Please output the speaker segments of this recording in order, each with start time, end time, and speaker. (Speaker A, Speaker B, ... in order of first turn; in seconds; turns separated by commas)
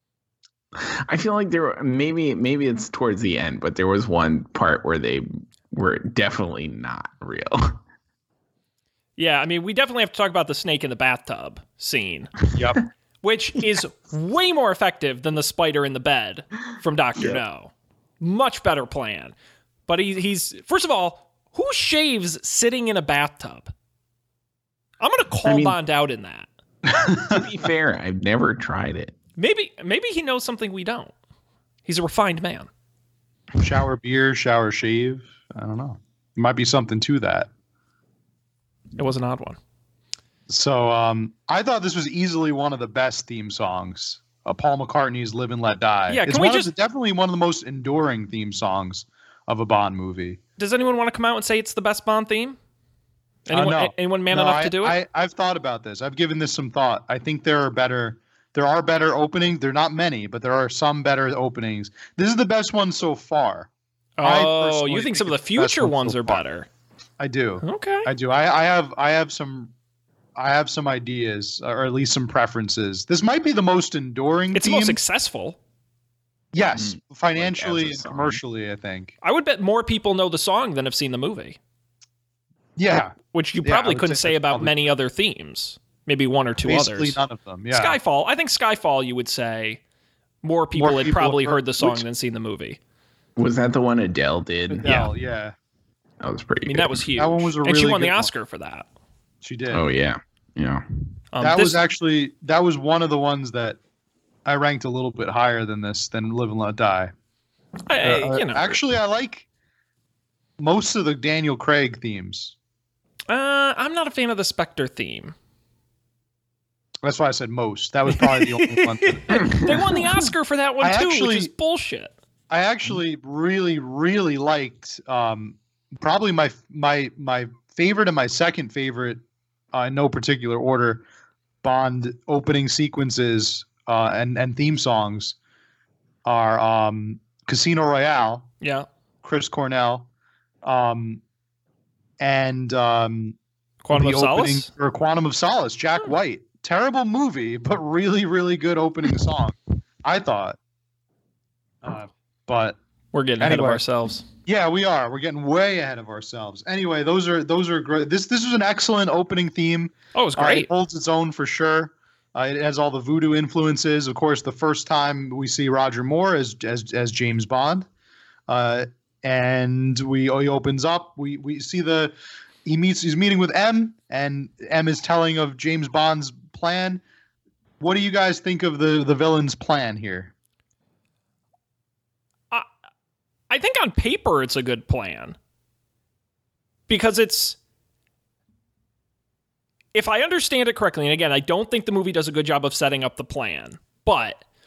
Speaker A: 0.8-7.8, Speaker B: 9.2-12.3, Speaker C: 12.6-12.8, Speaker B: 13.2-19.3, Speaker B: 19.9-23.7, Speaker B: 25.0-26.5, Speaker A: 25.5-25.8, Speaker C: 26.9-27.4, Speaker A: 27.3-29.1, Speaker B: 29.4-31.1, Speaker B: 31.9-32.7, Speaker C: 33.6-37.5, Speaker B: 39.0-39.6, Speaker C: 40.5-50.4, Speaker B: 46.1-46.7, Speaker B: 50.6-52.6, Speaker B: 53.5-55.0, Speaker C: 53.5-63.7, Speaker B: 64.2-66.7, Speaker C: 64.2-66.4, Speaker C: 67.2-69.7, Speaker B: 67.6-68.1, Speaker C: 70.4-75.0, Speaker B: 74.5-75.6, Speaker C: 76.5-79.1, Speaker A: 76.8-78.4, Speaker B: 79.2-81.6, Speaker C: 82.8-84.8, Speaker B: 83.3-87.2, Speaker C: 86.7-88.0, Speaker B: 87.7-89.8, Speaker B: 90.4-92.8, Speaker C: 90.8-92.0, Speaker A: 93.4-95.1, Speaker C: 94.7-95.5, Speaker A: 96.2-97.1, Speaker B: 96.7-98.9, Speaker C: 97.2-98.3, Speaker C: 99.4-99.8, Speaker A: 99.7-100.8, Speaker B: 101.3-101.8, Speaker C: 101.4-103.8, Speaker C: 104.5-107.1, Speaker B: 107.9-108.8, Speaker C: 108.0-109.5, Speaker C: 110.6-112.5, Speaker B: 113.3-115.3, Speaker C: 117.0-119.6, Speaker B: 118.1-122.1, Speaker C: 120.8-121.5, Speaker C: 122.5-129.2, Speaker C: 129.7-131.0, Speaker C: 131.6-135.4, Speaker C: 136.2-138.5, Speaker B: 138.6-138.9, Speaker C: 139.2-140.1, Speaker C: 140.6-141.2, Speaker C: 142.2-143.4, Speaker B: 143.8-144.7, Speaker C: 143.9-150.6, Speaker C: 151.8-152.8, Speaker B: 153.1-154.2, Speaker C: 153.4-153.8, Speaker C: 154.5-167.9, Speaker B: 160.2-160.7, Speaker C: 168.5-172.1, Speaker C: 172.7-177.0, Speaker C: 177.8-180.3, Speaker B: 183.5-185.4, Speaker B: 186.9-187.6, Speaker B: 189.9-194.4